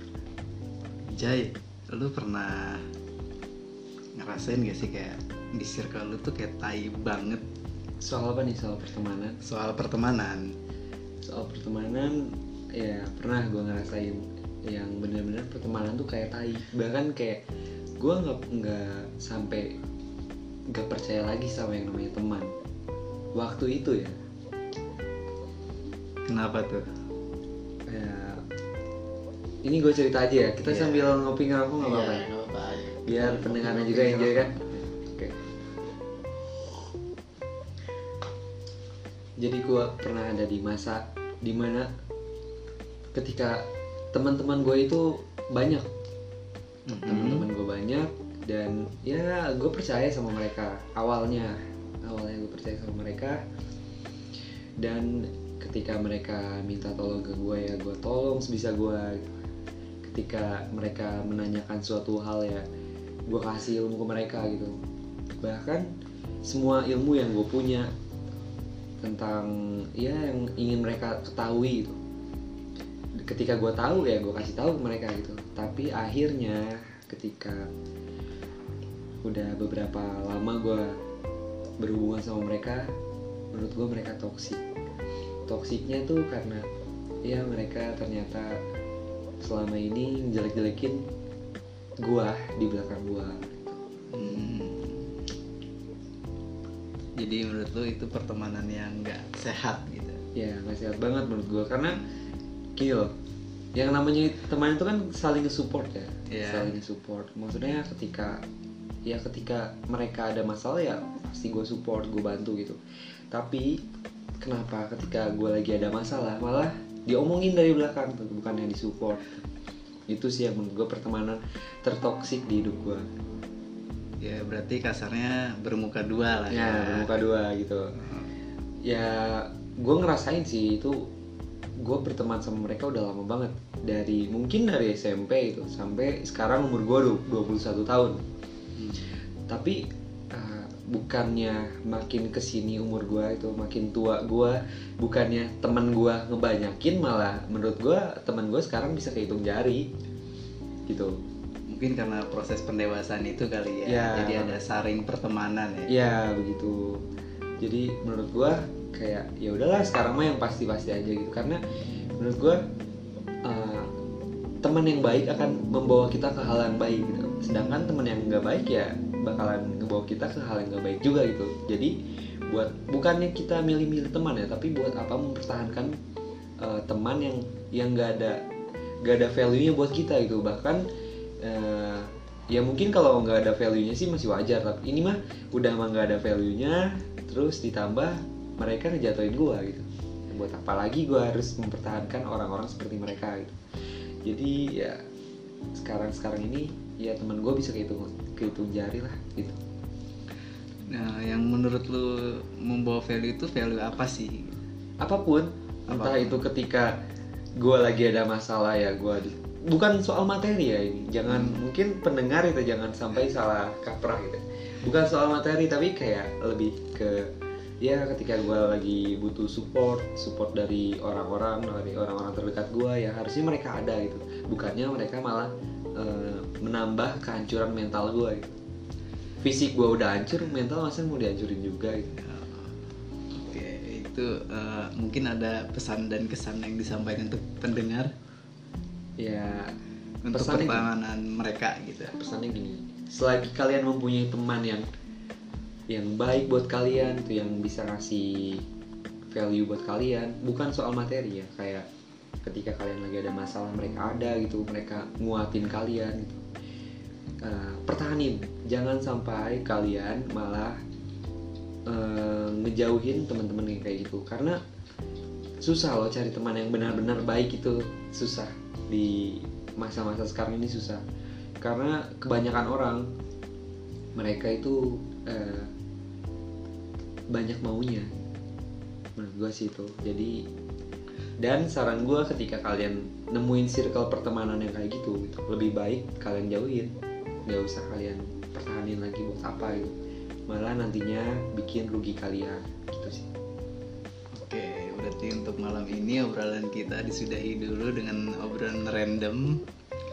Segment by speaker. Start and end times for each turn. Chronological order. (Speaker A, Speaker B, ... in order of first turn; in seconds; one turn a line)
Speaker A: 1.1-2.9
Speaker A: 4.2-7.4
Speaker B: 8.0-9.4
Speaker A: 9.4-10.6
Speaker B: 11.2-17.4
Speaker B: 18.0-19.7
Speaker B: 20.7-22.5
Speaker B: 23.4-24.2
Speaker A: 26.3-26.9
Speaker B: 27.9-28.4
Speaker B: 29.6-32.3
Speaker A: 30.7-31.2
Speaker A: 31.8-34.6
Speaker B: 33.1-35.4
Speaker B: 39.4-41.9
Speaker B: 43.1-45.9
Speaker A: 46.9-47.5
Speaker B: 47.0-53.4
Speaker B: 54.8-59.3
Speaker B: 60.0-62.7
Speaker B: 63.3-64.8
Speaker B: 65.4-65.9
Speaker B: 66.5-67.9
Speaker B: 69.0-72.0
Speaker B: 73.2-77.7
Speaker B: 79.2-81.0
Speaker B: 81.8-82.9
Speaker B: 83.5-84.6
Speaker B: 85.5-86.7
Speaker B: 87.3-88.6
Speaker B: 89.4-91.0
Speaker B: 92.0-93.8
Speaker A: 94.1-95.1
Speaker A: 97.2-100.2
Speaker B: 100.3-102.0
Speaker B: 102.8-103.1
Speaker B: 103.8-108.4
Speaker A: 106.3-106.7
Speaker B: 109.1-112.8
Speaker B: 113.3-113.8
Speaker B: 114.4-119.4
Speaker B: 120.1-123.1
Speaker A: 124.2-127.3
Speaker B: 126.5-128.0
Speaker A: 128.0-128.3
Speaker B: 128.9-131.1
Speaker B: 131.8-138.2
Speaker A: 138.8-139.1
Speaker B: 139.5-139.8
Speaker B: 140.3-149.9
Speaker B: 150.9-151.2
Speaker A: 151.7-155.9
Speaker B: 153.9-154.6
Speaker B: 155.9-157.0
Speaker B: 157.6-161.6
Speaker B: 162.2-162.6
Speaker B: 163.5-163.9
Speaker B: 164.6-171.9
Speaker B: 172.5-176.0
Speaker B: 176.6-178.4
Speaker B: 179.0-180.8
Speaker B: 181.4-193.6
Speaker B: 194.2-195.0
Speaker B: 195.8-199.6
Speaker A: 200.9-204.6
Speaker B: 205.0-206.9
Speaker A: 205.9-206.4
Speaker B: 207.6-217.3
Speaker A: 211.3-211.7
Speaker B: 217.8-228.6
Speaker B: 229.4-232.2
Speaker A: 232.2-232.8
Speaker A: 233.3-238.1
Speaker B: 239.2-239.7
Speaker A: 240.2-242.2
Speaker B: 240.3-240.9
Speaker B: 242.1-244.9
Speaker B: 245.9-248.6
Speaker B: 249.3-251.9
Speaker B: 252.4-256.4
Speaker B: 257.4-260.8
Speaker B: 261.9-264.6
Speaker B: 265.6-271.0
Speaker B: 271.6-273.1
Speaker B: 274.1-275.7
Speaker B: 277.3-278.1
Speaker B: 279.2-280.4
Speaker B: 281.4-286.9
Speaker B: 287.5-289.9
Speaker B: 290.5-293.3
Speaker A: 294.4-299.6